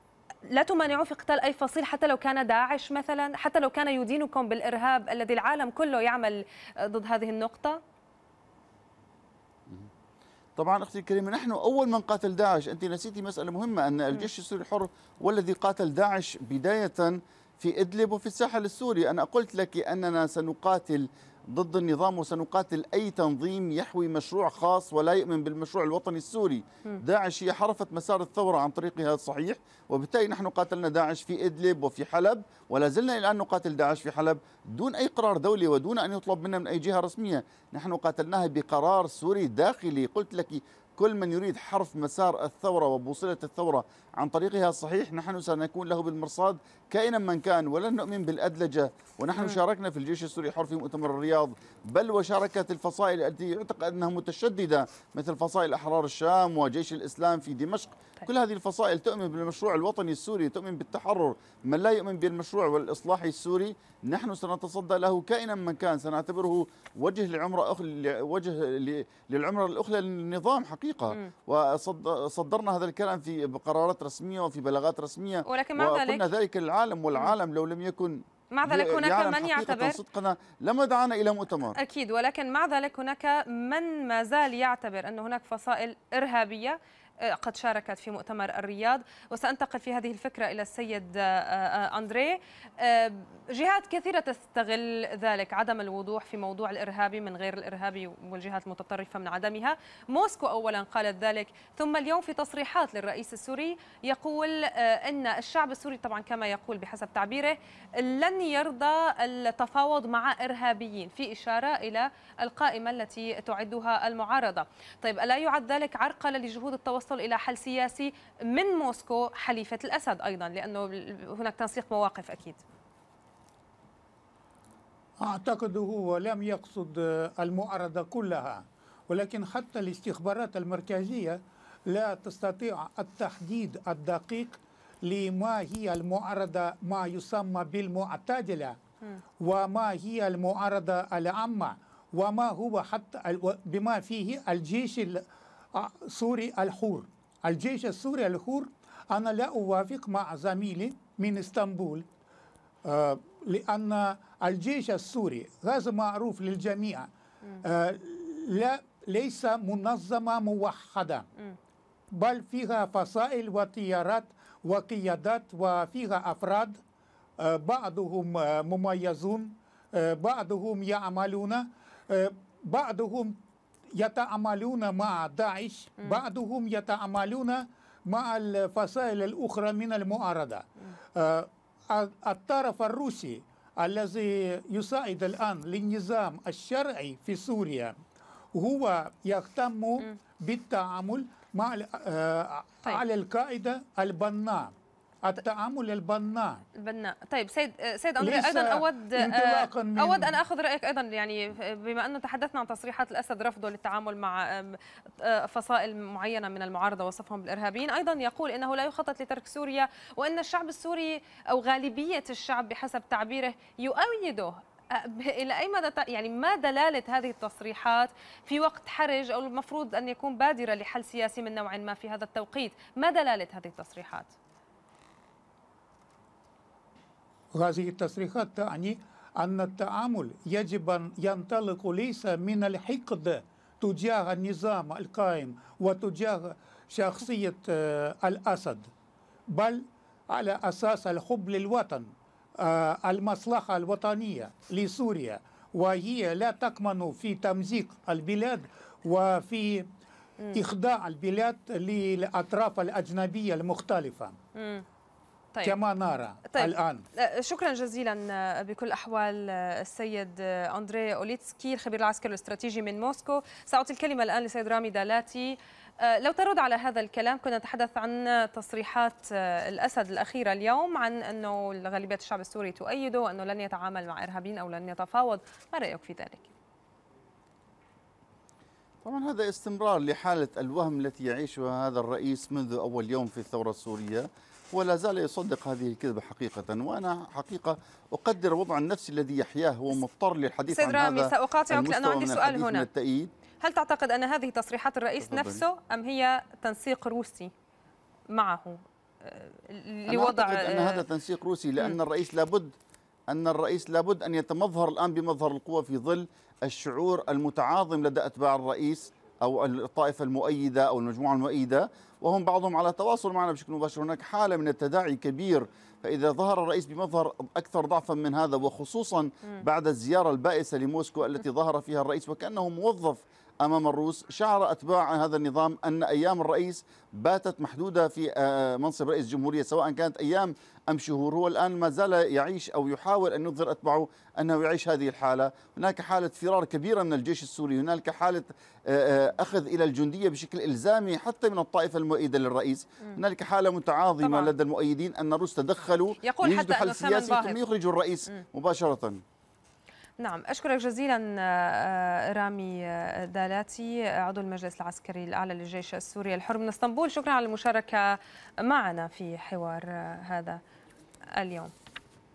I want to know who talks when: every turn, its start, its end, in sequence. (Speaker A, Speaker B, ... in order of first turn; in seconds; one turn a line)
Speaker A: 0.5-7.8
Speaker B: 10.6-81.8
Speaker A: 75.5-76.3
Speaker A: 78.5-80.0
Speaker A: 81.7-122.6
Speaker C: 125.2-138.8
Speaker C: 139.4-152.1
Speaker C: 152.8-157.1
Speaker C: 157.6-161.3
Speaker C: 162.1-166.8
Speaker C: 167.4-173.4
Speaker C: 173.9-188.0
Speaker C: 188.5-196.6
Speaker A: 196.8-224.3
Speaker C: 198.2-200.4
Speaker C: 227.5-238.9
Speaker C: 239.5-249.9
Speaker C: 250.5-254.4
Speaker A: 254.5-254.8
Speaker C: 255.6-257.0
Speaker A: 256.5-276.5
Speaker B: 279.0-293.3
Speaker A: 290.7-292.9
Speaker A: 293.6-297.5
Speaker B: 295.2-295.6
Speaker A: 298.3-301.0
Speaker B: 300.1-302.7
Speaker B: 303.3-349.2
Speaker A: 344.2-344.5
Speaker A: 346.2-347.6
Speaker A: 350.2-360.6
Speaker A: 361.4-361.7